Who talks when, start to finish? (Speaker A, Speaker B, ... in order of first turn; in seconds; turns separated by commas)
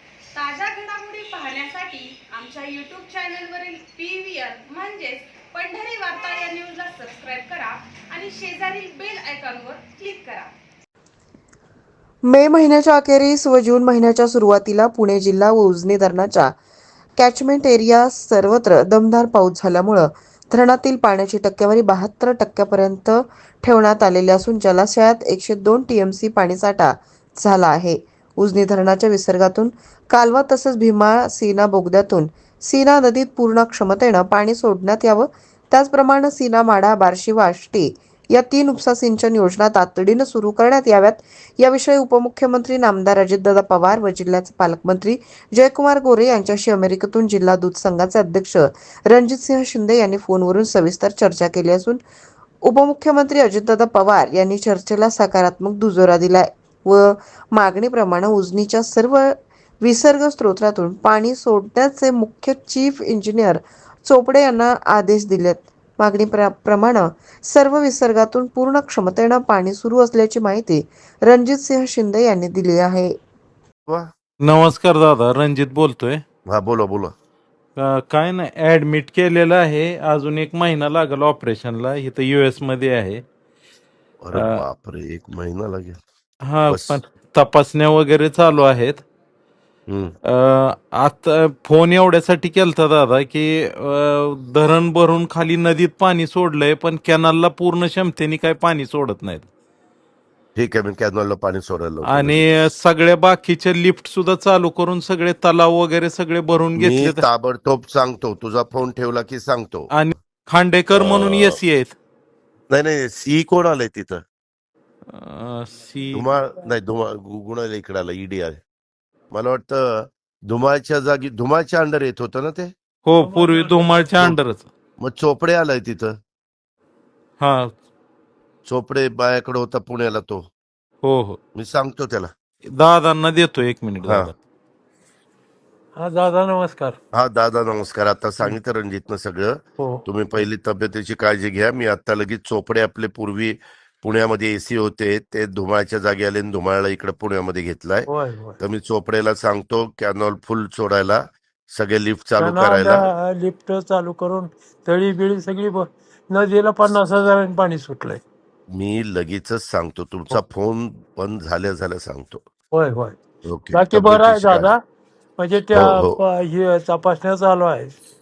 Speaker A: 0.3-10.5, Speaker B: 12.2-16.5, Speaker B: 17.2-52.0, Speaker B: 52.6-73.1, Speaker C: 74.4-76.2, Speaker D: 76.5-77.1, Speaker C: 77.8-83.2, Speaker D: 84.2-86.0, Speaker C: 86.5-89.0, Speaker D: 86.7-87.0, Speaker D: 89.9-90.1, Speaker C: 90.3-99.5, Speaker D: 100.5-102.5, Speaker C: 102.1-107.2, Speaker D: 106.8-109.9, Speaker C: 109.9-111.9, Speaker D: 110.9-111.6, Speaker D: 112.7-114.2, Speaker C: 115.1-116.2, Speaker D: 116.1-118.6, Speaker D: 119.3-122.7, Speaker C: 123.0-124.7, Speaker E: 123.2-124.2, Speaker D: 125.0-126.1, Speaker C: 127.4-127.7, Speaker D: 128.7-130.4, Speaker C: 131.0-131.4, Speaker D: 131.6-132.3, Speaker C: 132.7-134.3, Speaker D: 134.1-134.3, Speaker E: 135.9-137.0, Speaker D: 137.1-148.1, Speaker E: 139.8-140.1, Speaker E: 148.1-148.6, Speaker D: 148.6-153.1, Speaker E: 152.4-158.2, Speaker D: 158.7-162.4, Speaker E: 162.7-163.2, Speaker D: 163.4-164.7, Speaker E: 163.7-164.8, Speaker E: 165.4-167.9, Speaker D: 165.7-166.2